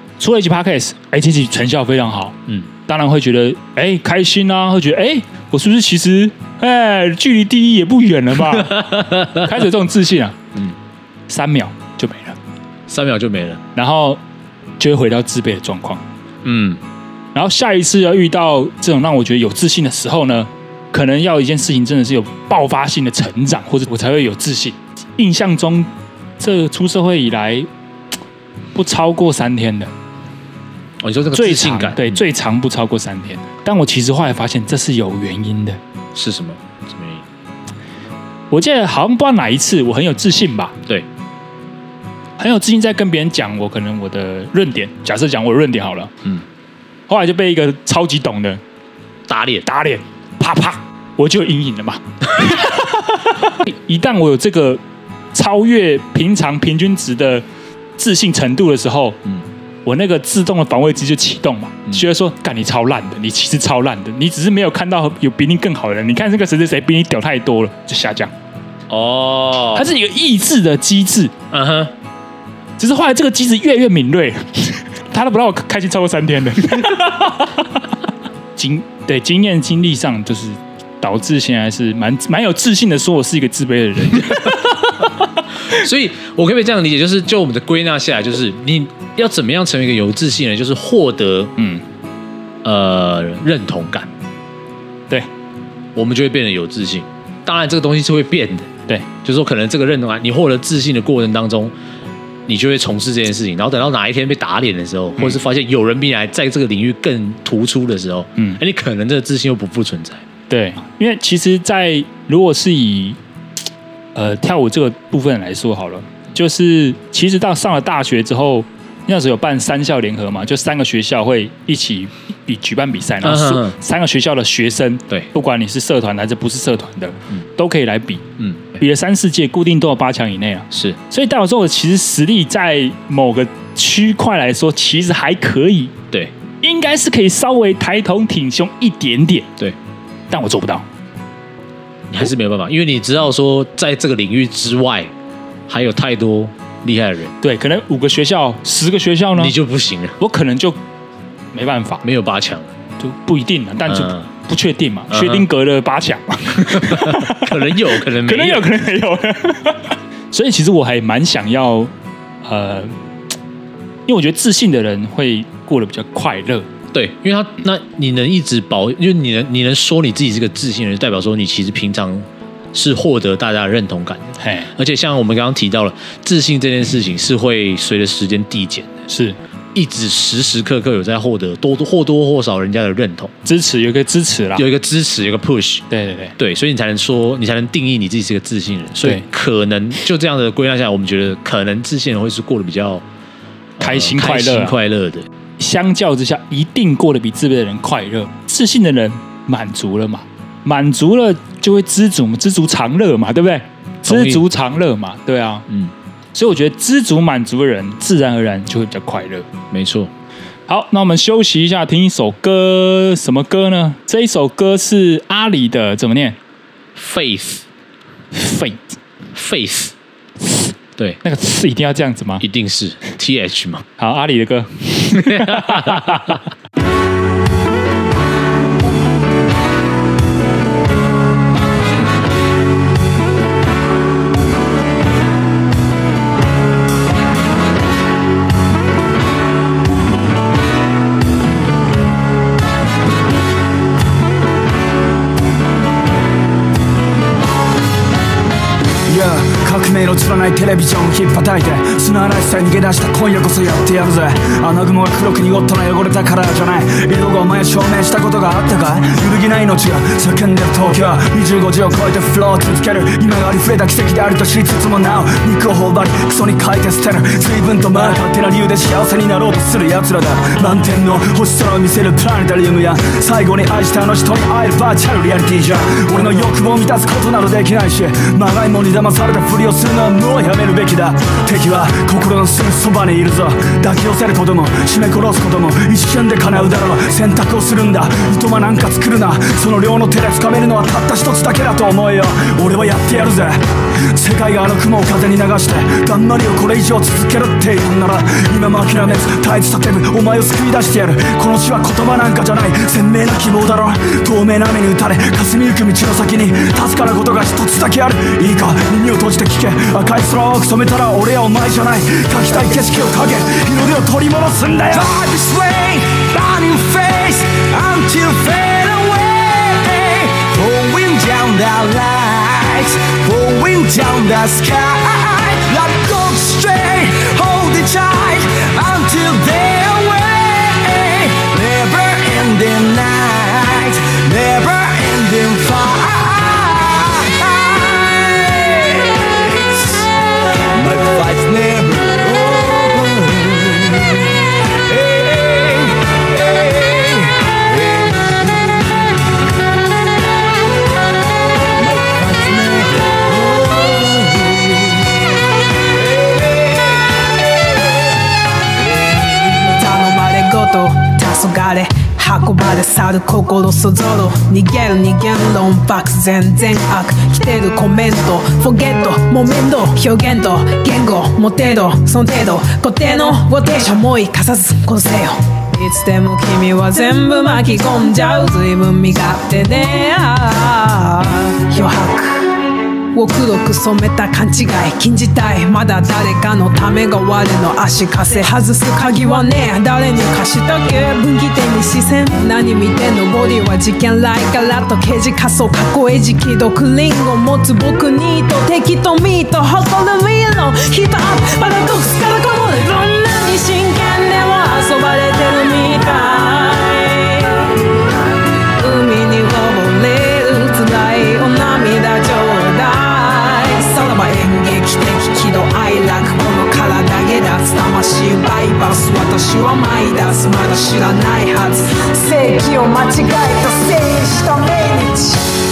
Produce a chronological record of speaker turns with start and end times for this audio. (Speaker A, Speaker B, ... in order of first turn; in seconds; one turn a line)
Speaker A: 0.2-2.4
Speaker A: 2.9-10.4
Speaker B: 8.4-9.6
Speaker A: 11.3-12.4
Speaker B: 12.9-13.6
Speaker A: 13.8-14.2
Speaker A: 14.8-16.0
Speaker B: 16.4-16.8
Speaker A: 17.3-27.7
Speaker A: 28.7-29.9
Speaker B: 31.0-32.2
Speaker A: 31.3-35.8
Speaker B: 36.1-37.2
Speaker A: 38.5-40.8
Speaker A: 42.4-46.1
Speaker A: 47.1-48.6
Speaker B: 49.3-49.7
Speaker A: 49.6-54.8
Speaker A: 55.3-57.4
Speaker A: 58.0-59.2
Speaker A: 59.9-68.3
Speaker B: 68.9-69.9
Speaker A: 69.8-71.3
Speaker B: 71.5-71.9
Speaker A: 72.8-77.7
Speaker A: 78.6-84.9
Speaker B: 84.4-91.5
Speaker A: 91.6-91.8
Speaker B: 92.6-94.1
Speaker B: 95.9-98.7
Speaker B: 99.2-101.7
Speaker B: 102.5-110.2
Speaker A: 110.5-113.2
Speaker A: 114.1-128.2
Speaker B: 123.2-123.7
Speaker A: 128.8-135.9
Speaker B: 130.7-131.0
Speaker A: 136.6-139.5
Speaker A: 140.3-140.8
Speaker B: 142.1-145.1
Speaker B: 145.7-147.3
Speaker A: 147.4-149.5
Speaker B: 149.3-150.2
Speaker A: 150.2-150.8
Speaker A: 151.5-152.0
Speaker B: 152.0-152.7
Speaker A: 153.0-161.9
Speaker B: 153.8-154.3
Speaker B: 155.1-155.5
Speaker B: 156.6-158.6
Speaker A: 162.4-162.9
Speaker A: 164.1-166.7
Speaker B: 166.9-179.0
Speaker A: 174.4-174.7
Speaker A: 179.1-179.4
Speaker B: 179.7-183.3
Speaker A: 183.4-184.7
Speaker B: 184.5-185.8
Speaker A: 185.9-186.3
Speaker B: 186.4-193.0
Speaker B: 193.8-195.2
Speaker A: 193.8-194.8
Speaker A: 195.6-205.7
Speaker B: 204.1-204.4
Speaker B: 205.7-205.9
Speaker A: 206.3-209.5
Speaker B: 209.7-210.1
Speaker A: 210.7-216.4
Speaker B: 216.9-217.6
Speaker A: 218.3-218.9
Speaker B: 219.3-219.9
Speaker A: 220.4-220.7
Speaker A: 221.2-222.4
Speaker B: 222.4-223.8
Speaker A: 224.0-226.4
Speaker B: 225.1-226.4
Speaker C: 249.1-293.6
Speaker C: 294.1-315.1
Speaker D: 314.9-340.2
Speaker D: 340.7-349.1
Speaker D: 351.8-355.3
Speaker D: 355.9-357.5
Speaker D: 358.9-359.7
Speaker E: 359.8-382.5
Speaker E: 383.1-407.7
Speaker E: 408.8-425.5